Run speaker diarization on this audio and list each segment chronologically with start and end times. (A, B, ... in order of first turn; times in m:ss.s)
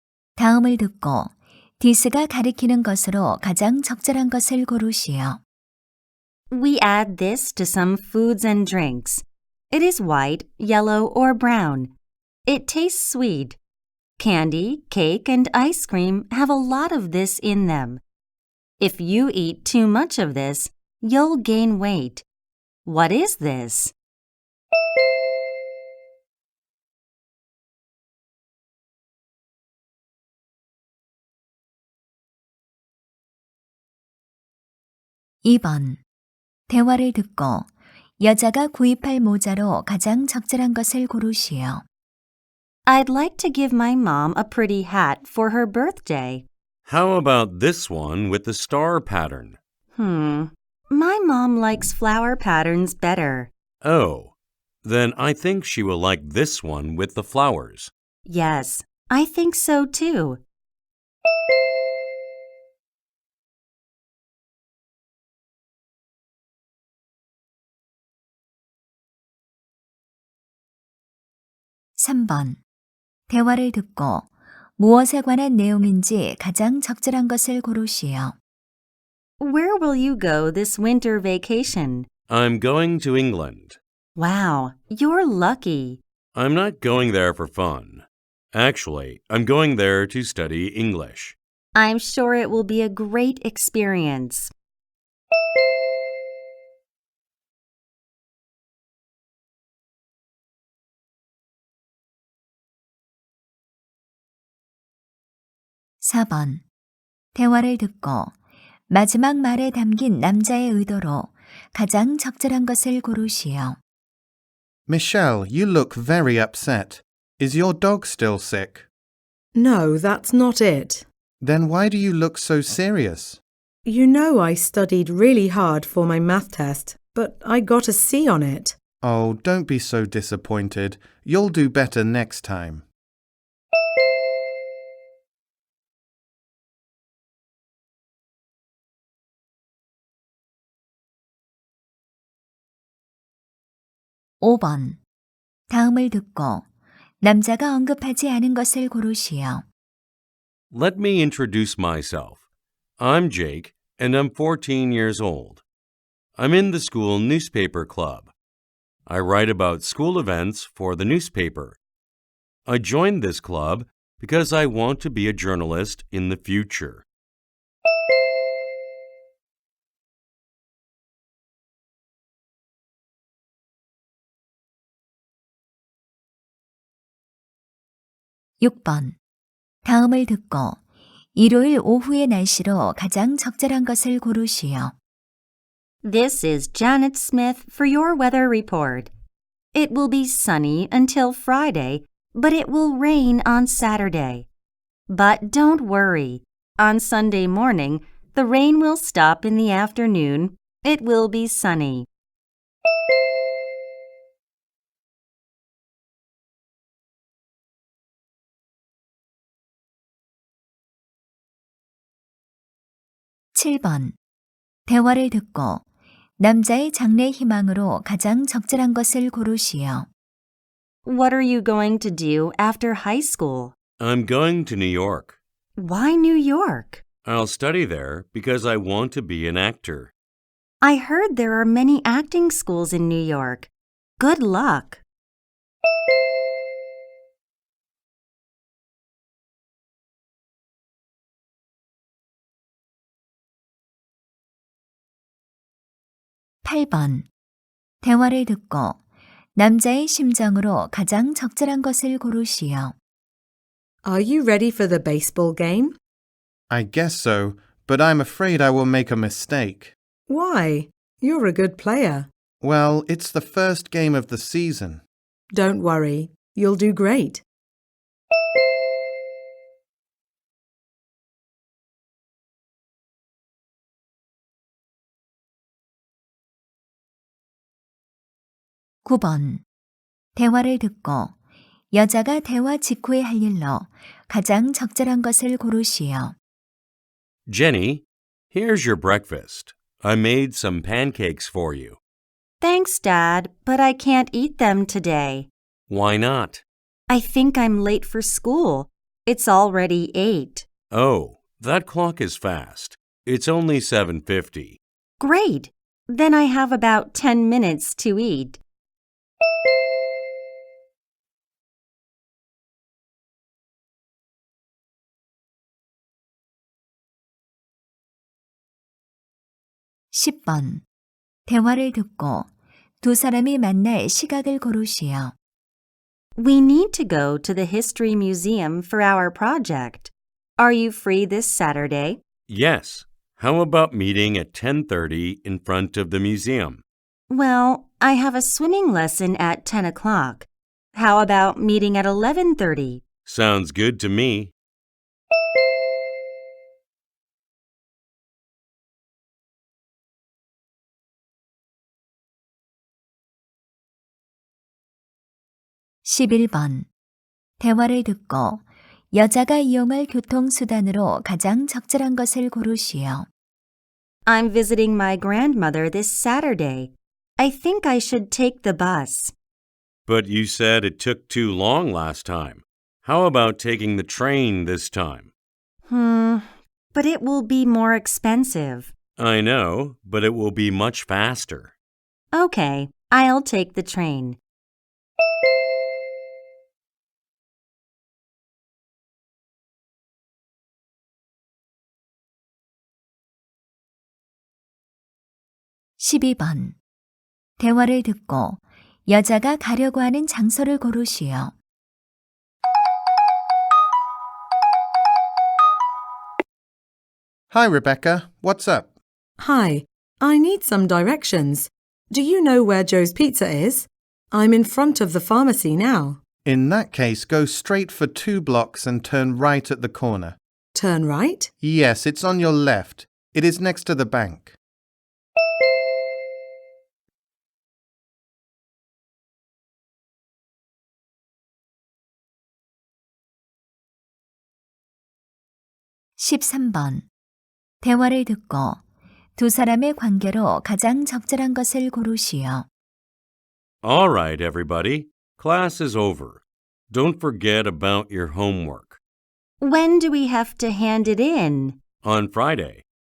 0:00.4-0:05.4 A
0:06.5-0:11.9 B
0:12.4-0:13.6 B
0:14.2-0:18.0 B
0:18.8-0:22.2 B
0:22.8-0:23.9 B
0:35.4-0:36.0 A
0:36.7-0:37.7 A
0:38.2-0:41.8 A
0:42.9-0:46.4 B
0:46.8-0:49.6 C
0:49.9-0:53.5 B
0:53.8-0:57.9 C
0:58.2-1:00.4 B
1:12.0-1:12.6 A
1:13.3-1:18.4 A
1:19.4-1:22.1 B
1:22.3-1:23.8 C
1:24.2-1:26.0 B
1:26.3-1:31.4 C
1:31.7-1:34.5 B
1:46.0-1:46.6 A
1:47.3-1:48.3 A
1:48.9-1:53.8 A
1:54.9-1:58.9 D
1:59.5-2:01.0 E
2:01.4-2:03.4 D
2:03.8-2:08.8 E
2:09.0-2:12.8 D
2:24.4-2:25.0 A
2:25.7-2:26.6 A
2:27.2-2:29.6 A
2:30.7-2:32.4 C
2:33.0-2:35.6 C
2:36.4-2:38.3 C
2:39.1-2:41.8 C
2:42.6-2:47.0 C
2:58.6-2:59.2 A
2:59.8-3:00.8 A
3:01.3-3:04.9 A
3:06.0-3:09.1 B
3:09.7-3:14.4 B
3:15.1-3:22.1 B
3:33.5-3:34.1 A
3:34.9-3:35.8 A
3:36.4-3:40.1 A
3:41.0-3:43.7 B
3:44.0-3:45.4 C
3:45.8-3:47.0 B
3:47.2-3:50.1 C
3:50.8-3:55.0 B
4:06.6-4:07.2 A
4:08.0-4:09.0 A
4:09.5-4:12.9 A
4:14.0-4:16.0 E
4:16.7-4:19.9 D
4:20.3-4:22.3 E
4:22.6-4:25.0 D
4:25.5-4:27.4 E
4:39.0-4:39.6 A
4:40.4-4:41.3 A
4:41.9-4:46.3 A
4:47.5-4:52.0 C
4:52.6-4:55.5 B
4:55.9-4:56.6 C
4:57.1-5:00.7 B
5:00.9-5:04.8 C
5:05.2-5:08.6 B
5:20.1-5:20.8 A
5:21.5-5:22.5 A
5:23.0-5:25.3 A
5:26.4-5:32.2 B
5:32.5-5:36.8 C
5:37.3-5:43.0 B
5:43.2-5:44.5 C
5:56.0-5:56.9 A
5:57.6-6:03.3 A
6:04.2-6:09.3 B
6:10.0-6:15.3 C
6:15.8-6:18.9 B
6:19.2-6:21.7 C
6:22.3-6:24.4 B
6:36.0-6:36.8 A
6:37.6-6:41.5 A
6:47.5-6:48.9 D
6:49.4-6:56.2 E
6:56.4-7:00.4 D
7:00.7-7:01.5 E
7:01.6-7:04.6 D
7:16.2-7:17.0 A
7:17.8-7:18.8 A
7:19.4-7:22.7 A
7:23.8-7:29.0 C
7:29.6-7:31.8 B
7:32.0-7:32.8 C